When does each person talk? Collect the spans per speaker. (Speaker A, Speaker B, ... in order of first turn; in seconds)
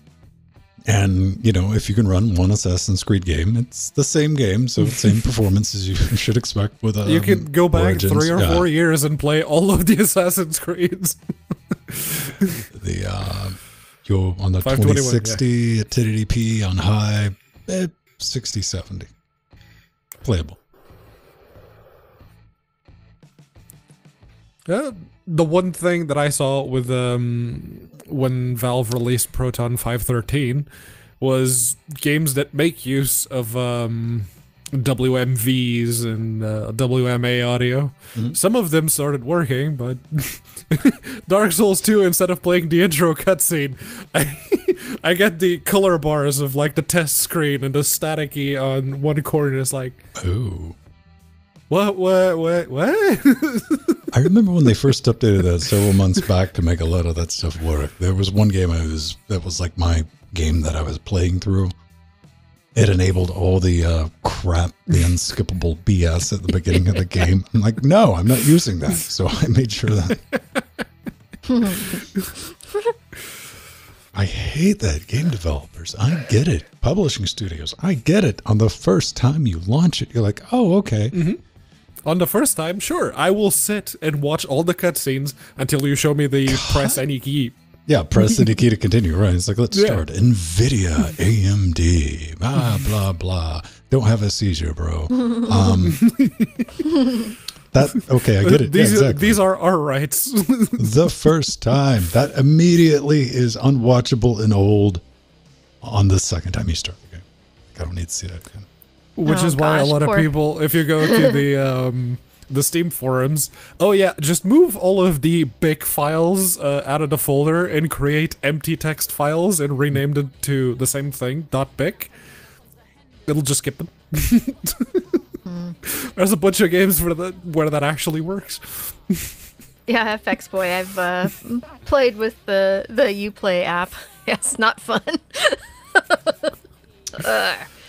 Speaker A: 0.9-8.7, 12.7-19.1, 20.2-20.6, 50.1-50.8, 54.1-61.7, 62.7-70.2, 74.1-81.2, 86.5-87.0, 87.9-96.1, 97.7-99.4, 100.8-105.0, 105.8-108.7
Speaker B: 7.0-12.6, 14.6-15.4, 24.6-30.7, 31.2-50.0, 51.7-54.0, 70.3-70.6, 71.7-72.3, 81.1-81.4, 82.0-87.5, 89.7-90.0, 95.9-96.7, 98.4-101.1, 109.2-122.1, 123.3-125.2, 125.8-129.3
Speaker C: 71.5-71.9, 109.2-110.3, 111.1-111.4, 125.5-125.7, 129.9-136.5, 137.1-137.7